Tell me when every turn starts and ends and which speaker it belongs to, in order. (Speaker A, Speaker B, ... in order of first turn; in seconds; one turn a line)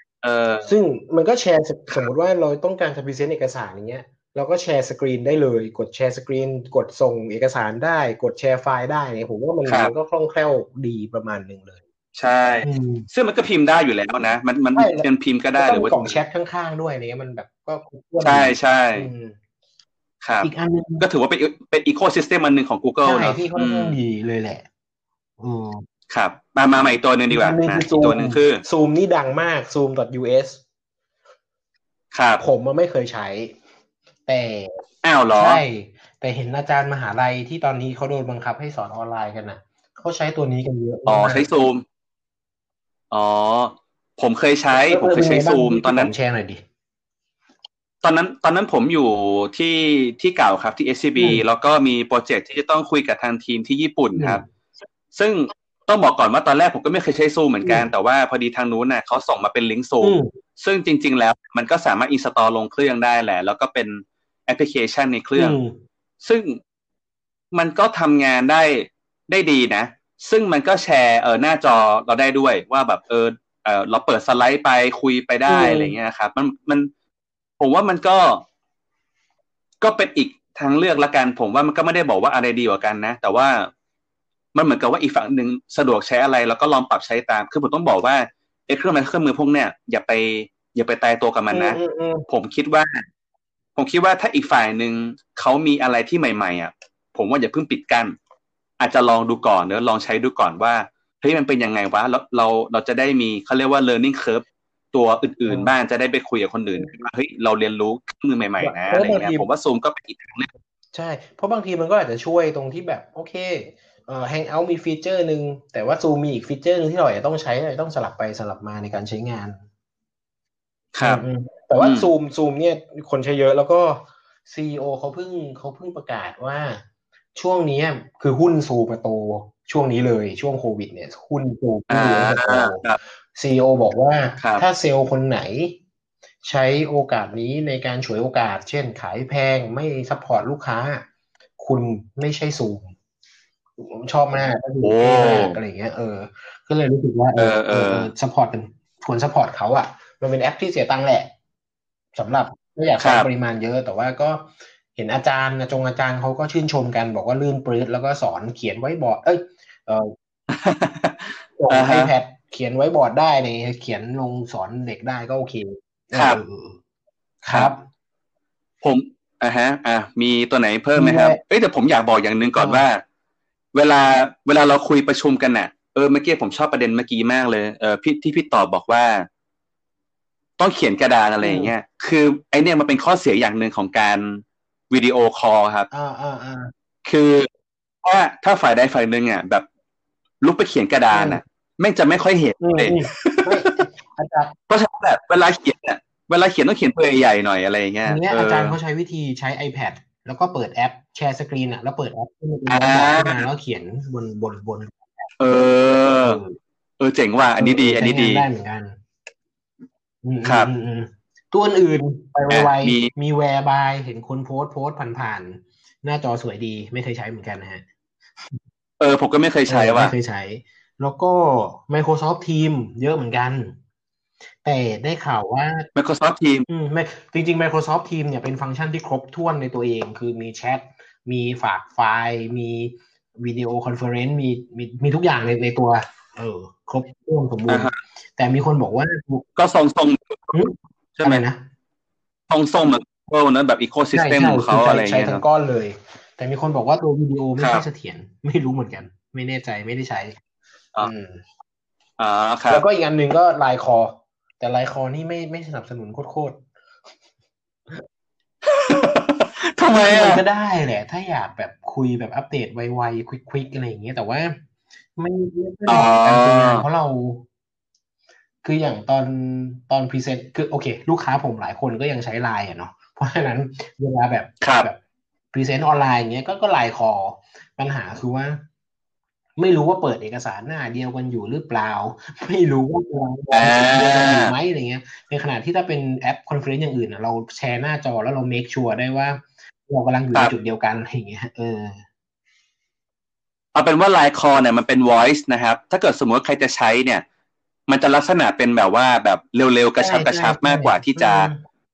Speaker A: 0.2-0.7
Speaker B: 0.6-11.8
Speaker A: 9.7-9.9
Speaker A: 12.2-16.2
Speaker B: 12.6-13.1
Speaker B: 14.7-19.4
Speaker A: 18.2-19.1
Speaker A: 20.2-20.5
Speaker B: 20.4-21.1
Speaker A: 21.0-24.0
Speaker B: 23.0-24.6
Speaker B: 25.4-25.9
Speaker A: 26.1-28.6
Speaker B: 27.3-30.6
Speaker A: 32.1-32.4
Speaker B: 32.4-33.5
Speaker B: 34.2-41.5
Speaker A: 35.0-35.6
Speaker A: 41.1-41.8
Speaker A: 43.1-46.1
Speaker B: 44.8-46.6
Speaker A: 48.0-54.4
Speaker B: 51.2-51.4
Speaker B: 54.2-54.5
Speaker A: 55.1-65.6
Speaker B: 57.6-57.9
Speaker B: 60.0-60.3
Speaker B: 65.4-65.8
Speaker A: 66.2-66.6
Speaker A: 67.5-76.9
Speaker B: 75.5-76.0
Speaker A: 77.6-78.5
Speaker A: 79.8-83.7
Speaker A: 84.5-93.0
Speaker B: 91.5-92.3
Speaker A: 93.8-98.2
Speaker A: 98.8-110.5
Speaker B: 105.5-105.7
Speaker B: 108.6-109.5
Speaker B: 110.9-119.6
Speaker A: 121.0-121.2
Speaker B: 121.0-126.8
Speaker A: 121.8-122.1
Speaker B: 127.3-135.8
Speaker A: 131.9-133.0
Speaker A: 134.4-134.6
Speaker B: 136.4-141.1
Speaker B: 141.6-142.9
Speaker B: 143.8-151.3
Speaker A: 144.8-145.6
Speaker A: 147.4-148.1
Speaker B: 152.1-160.1
Speaker A: 153.0-153.3
Speaker A: 160.5-162.1
Speaker B: 161.6-166.8
Speaker A: 166.1-166.4
Speaker B: 167.4-167.8
Speaker A: 168.8-173.0
Speaker B: 170.9-171.4
Speaker B: 172.6-172.8
Speaker A: 173.7-179.2
Speaker A: 180.6-185.9
Speaker B: 181.4-181.7
Speaker B: 185.9-186.7
Speaker A: 187.0-187.5
Speaker A: 188.0-189.7
Speaker A: 190.4-193.7
Speaker B: 191.1-191.4
Speaker B: 192.6-194.6
Speaker A: 194.7-198.8
Speaker B: 198.0-205.3
Speaker A: 202.7-203.4
Speaker A: 205.4-206.4
Speaker B: 206.2-206.6
Speaker A: 207.0-208.5
Speaker B: 207.6-209.0
Speaker B: 210.2-217.8
Speaker A: 212.5-213.1
Speaker A: 219.0-220.1
Speaker B: 219.7-223.8
Speaker B: 224.6-225.9
Speaker A: 226.0-226.7
Speaker B: 226.7-239.5
Speaker A: 237.7-238.0
Speaker A: 239.6-240.5
Speaker B: 240.5-241.6
Speaker A: 241.2-241.4
Speaker A: 242.5-245.4
Speaker B: 244.1-250.4
Speaker A: 247.6-247.8
Speaker B: 251.0-251.4
Speaker A: 252.2-252.8
Speaker B: 252.7-256.6
Speaker A: 258.6-260.4
Speaker B: 259.9-264.6
Speaker B: 265.2-267.4
Speaker A: 265.9-266.9
Speaker B: 268.6-275.0
Speaker A: 274.6-274.9
Speaker B: 275.5-278.6
Speaker B: 279.6-292.0
Speaker A: 283.5-284.5
Speaker A: 293.7-297.2
Speaker A: 297.9-301.5
Speaker B: 300.0-301.6